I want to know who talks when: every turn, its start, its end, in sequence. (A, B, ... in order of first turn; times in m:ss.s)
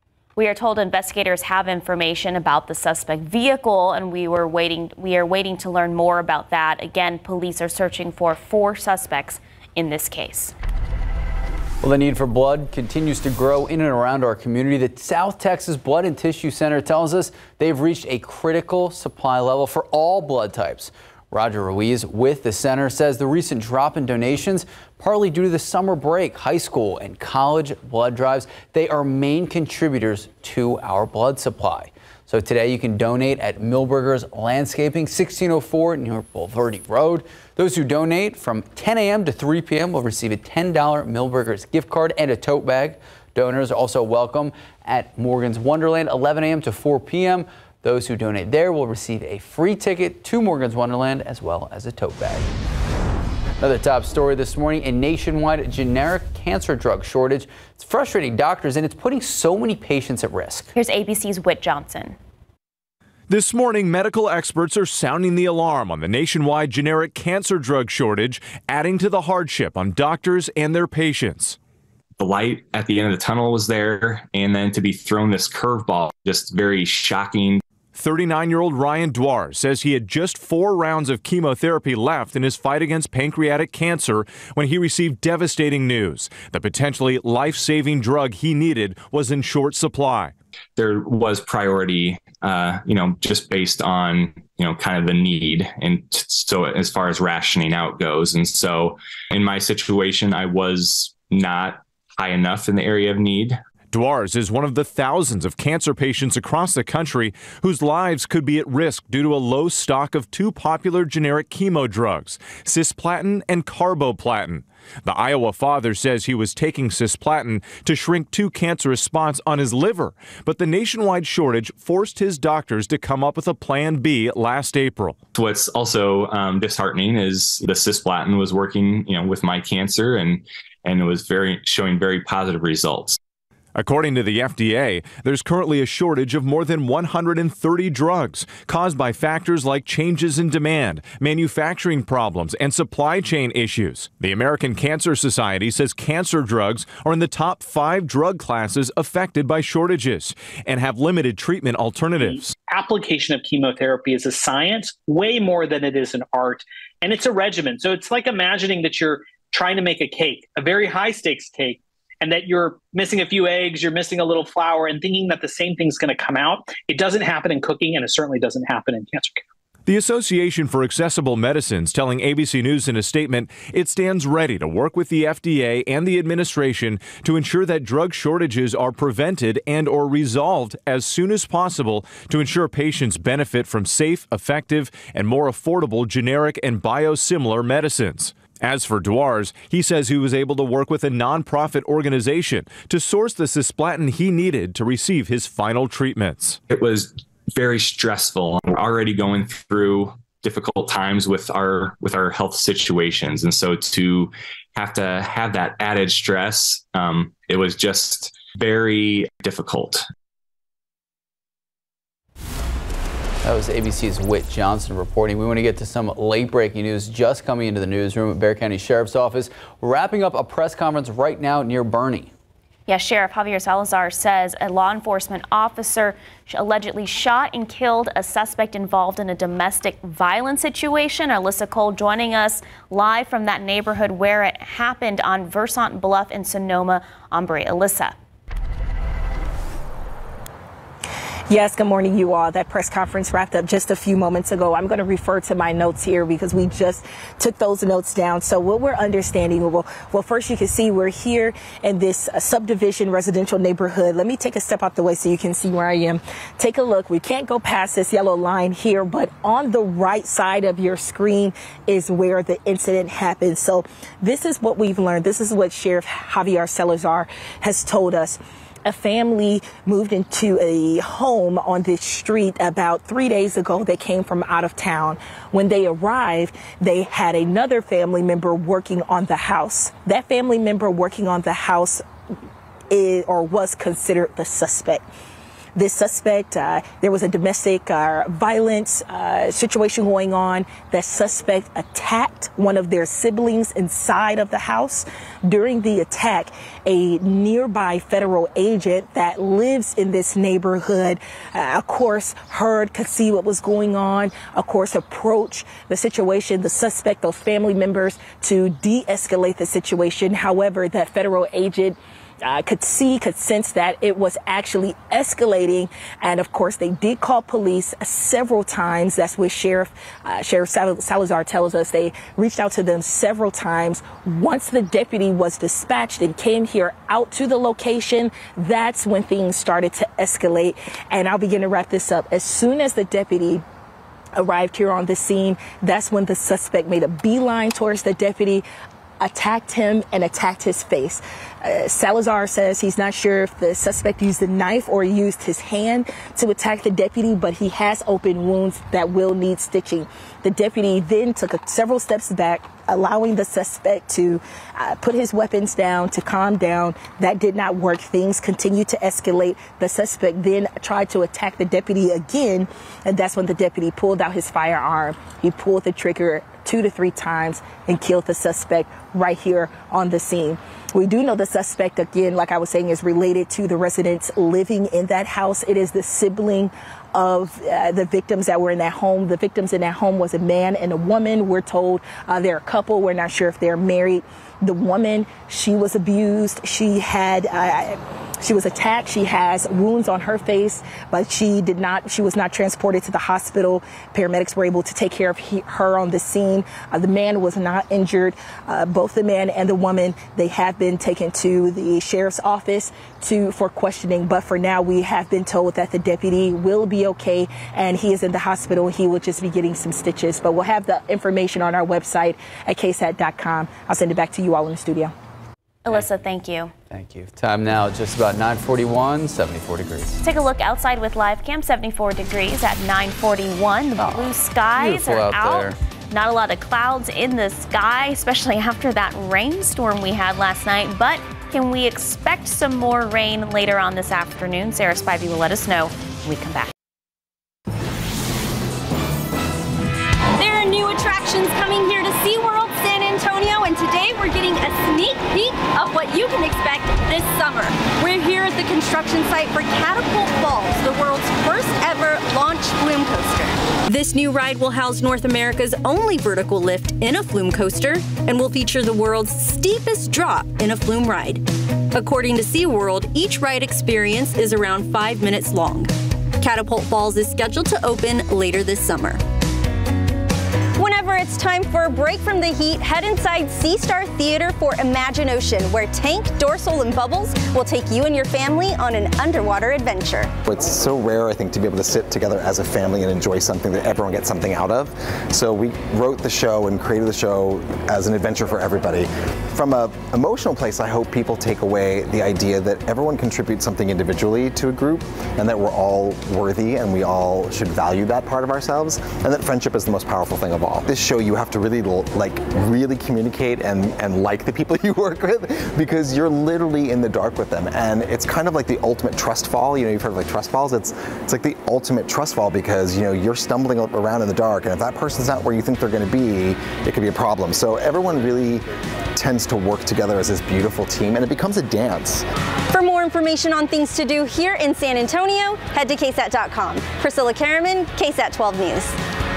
0:00.4-0:10.5 A
0:11.8-0:52.5 B
0:53.6-1:00.7 B
1:00.7-1:02.2 A
1:03.3-1:11.6 C
1:12.2-1:17.6 D
1:18.0-1:30.3 C
1:30.8-1:43.6 D
1:43.9-2:05.2 C
2:05.3-2:13.2 D
2:13.8-2:32.6 C
2:32.2-2:49.4 E
2:49.9-3:16.6 C
3:16.7-3:30.0 D
3:33.4-3:42.3 B
3:42.9-3:58.2 A
4:01.5-4:42.0 F
4:42.9-4:45.0 F
4:45.8-5:33.6 F
5:34.4-5:38.7 F
5:39.2-6:55.1 F
6:55.8-6:56.7 A
6:56.9-7:00.2 B
7:00.2-7:16.7 A
7:04.0-7:05.8 B
7:20.4-7:49.2 G
7:50.8-8:00.4 G
8:00.4-8:42.2 H
8:42.7-8:49.0 G